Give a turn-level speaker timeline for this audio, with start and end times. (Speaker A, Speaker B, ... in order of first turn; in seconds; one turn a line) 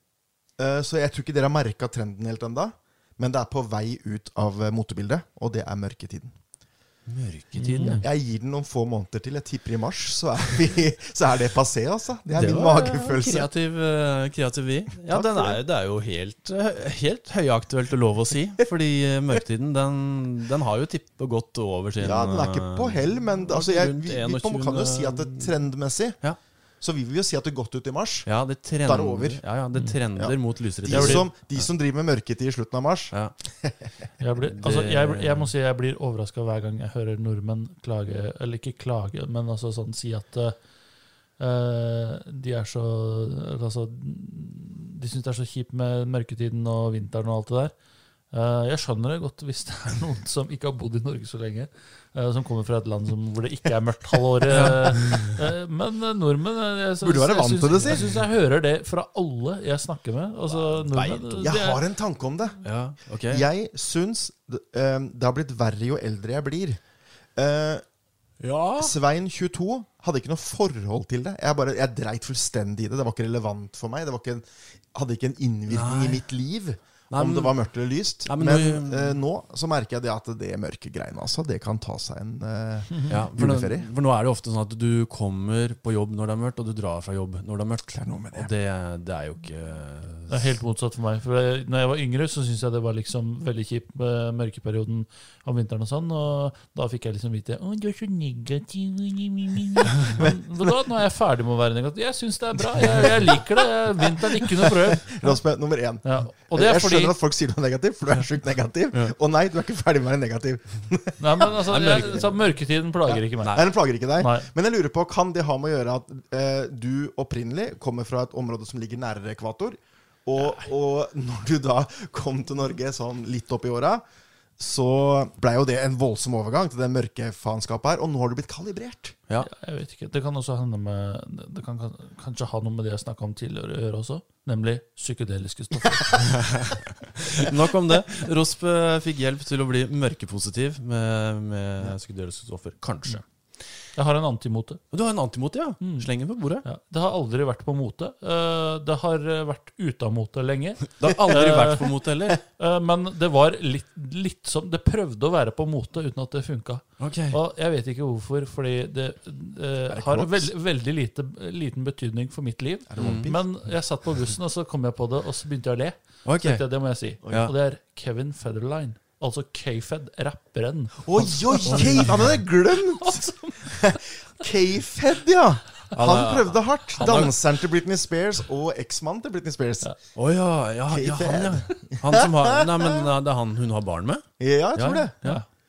Speaker A: 0.6-6.3
Speaker B: 7.1-8.0
Speaker C: 7.6-8.0
Speaker A: 7.8-13.5
Speaker B: 12.3-25.6
Speaker A: 15.1-15.6
Speaker A: 22.0-26.2
Speaker A: 26.8-28.3
Speaker B: 28.2-31.6
Speaker A: 28.8-29.4
Speaker A: 30.1-33.8
Speaker C: 30.9-31.2
Speaker C: 34.2-40.6
Speaker B: 34.4-35.5
Speaker C: 41.4-47.7
Speaker C: 48.3-61.8
Speaker B: 54.5-55.4
Speaker A: 57.0-58.0
Speaker B: 60.5-61.5
Speaker A: 61.4-62.6
Speaker B: 62.6-63.5
Speaker A: 63.3-66.8
Speaker A: 67.3-67.8
Speaker B: 68.4-68.9
Speaker A: 68.8-83.9
Speaker B: 75.7-76.3
Speaker B: 77.1-77.5
Speaker B: 78.2-79.2
Speaker B: 83.1-90.5
Speaker A: 87.9-88.5
Speaker C: 90.3-105.3
Speaker A: 102.8-112.2
Speaker C: 106.0-107.1
Speaker C: 111.2-113.7
Speaker B: 111.5-112.3
Speaker A: 113.1-124.0
Speaker B: 113.4-113.7
Speaker C: 114.2-114.5
Speaker A: 124.6-129.2
Speaker C: 129.4-136.7
Speaker B: 136.2-143.2
Speaker C: 143.9-144.8
Speaker B: 144.9-146.6
Speaker C: 145.8-146.1
Speaker C: 146.6-173.7
Speaker B: 151.0-152.4
Speaker B: 157.0-157.4
Speaker A: 159.9-160.5
Speaker A: 162.9-163.4
Speaker B: 163.0-163.3
Speaker B: 166.2-166.6
Speaker B: 167.3-167.5
Speaker A: 171.0-179.9
Speaker B: 171.7-172.0
Speaker B: 175.9-177.3
Speaker B: 180.1-185.4
Speaker A: 180.9-183.1
Speaker A: 184.4-185.2